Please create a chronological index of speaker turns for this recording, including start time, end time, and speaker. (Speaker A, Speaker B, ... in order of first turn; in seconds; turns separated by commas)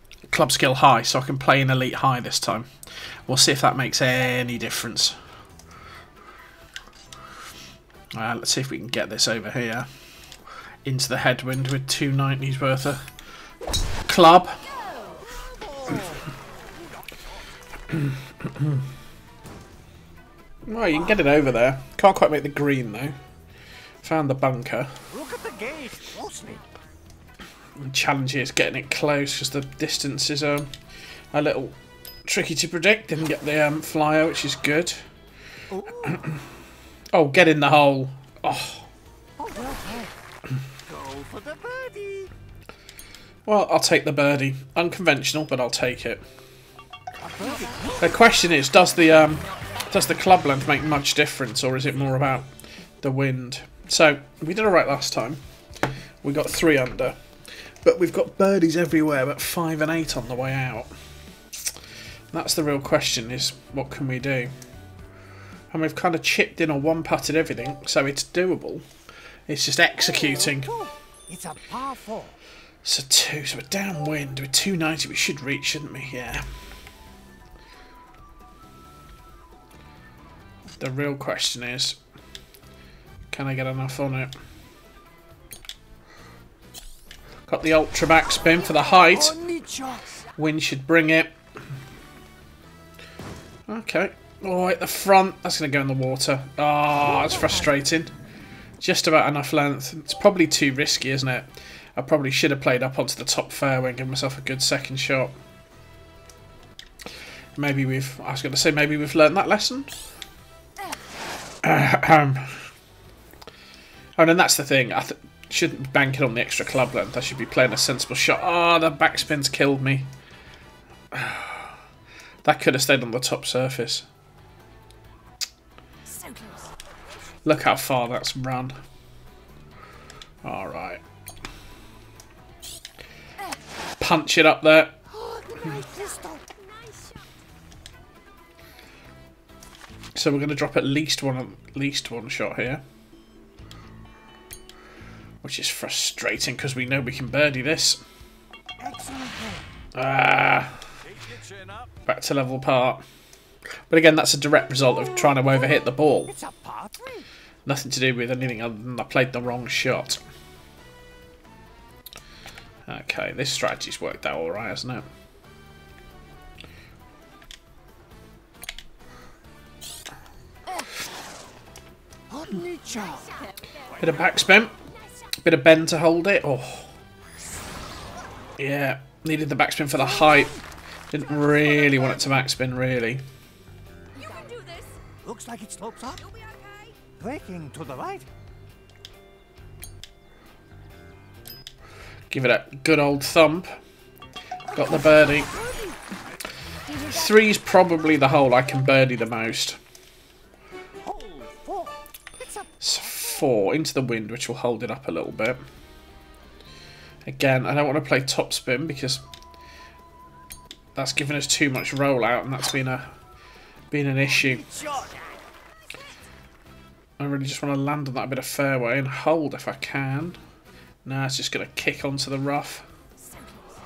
Speaker A: 0.3-2.7, Speaker A: 3.3-5.2, Speaker A: 8.1-9.9, Speaker A: 10.8-13.1, Speaker A: 14.0-14.7, Speaker B: 14.7-15.2, Speaker C: 15.1-16.3, Speaker A: 17.9-18.8, Speaker A: 20.6-23.1, Speaker A: 24.0-25.0, Speaker C: 25.1-26.6, Speaker A: 27.8-30.7, Speaker A: 31.3-35.0, Speaker C: 35.7-36.3, Speaker A: 36.0-36.4, Speaker A: 37.1-38.9, Speaker C: 39.4-40.1, Speaker C: 40.9-42.3, Speaker A: 43.5-46.2, Speaker C: 47.2-48.0, Speaker A: 48.0-52.5, Speaker A: 53.0-55.4, Speaker A: 56.2-57.2, Speaker A: 57.8-60.9, Speaker A: 62.3-64.5, Speaker A: 65.7-68.8, Speaker A: 69.5-70.8, Speaker C: 70.0-72.4, Speaker A: 72.8-76.5, Speaker A: 80.8-82.0, Speaker A: 83.3-84.3, Speaker A: 87.5-89.3, Speaker C: 88.9-90.2, Speaker A: 90.4-91.3, Speaker A: 93.7-98.1, Speaker C: 97.0-97.8, Speaker A: 98.8-105.3, Speaker A: 107.5-109.9, Speaker A: 111.6-112.7, Speaker A: 114.2-120.1, Speaker A: 121.1-121.8, Speaker A: 122.4-124.0, Speaker B: 126.1-126.6, Speaker A: 127.4-128.8, Speaker A: 130.4-131.0, Speaker A: 134.0-135.0, Speaker C: 135.1-136.4, Speaker B: 135.7-137.3, Speaker A: 140.1-142.8, Speaker A: 145.4-148.0, Speaker C: 148.8-149.7, Speaker A: 149.9-150.8, Speaker C: 151.5-151.8, Speaker A: 152.0-153.0, Speaker A: 153.9-156.3, Speaker C: 154.9-155.5, Speaker C: 156.2-157.3, Speaker A: 157.7-160.2, Speaker A: 162.9-165.1, Speaker C: 172.3-173.4, Speaker B: 172.9-175.3, Speaker A: 174.0-174.8, Speaker A: 175.4-176.9, Speaker A: 178.6-180.6, Speaker C: 179.9-180.6, Speaker A: 181.1-183.2, Speaker B: 184.1-185.0, Speaker C: 185.2-186.2, Speaker B: 186.2-186.9, Speaker C: 187.2-188.3, Speaker A: 192.3-193.8, Speaker C: 194.7-196.0, Speaker A: 194.7-195.5, Speaker A: 197.0-199.8, Speaker C: 201.0-202.9, Speaker A: 202.8-205.6, Speaker A: 207.2-209.2, Speaker A: 210.9-213.1, Speaker A: 213.9-214.6, Speaker C: 214.3-215.2, Speaker A: 217.2-220.4, Speaker A: 221.0-222.8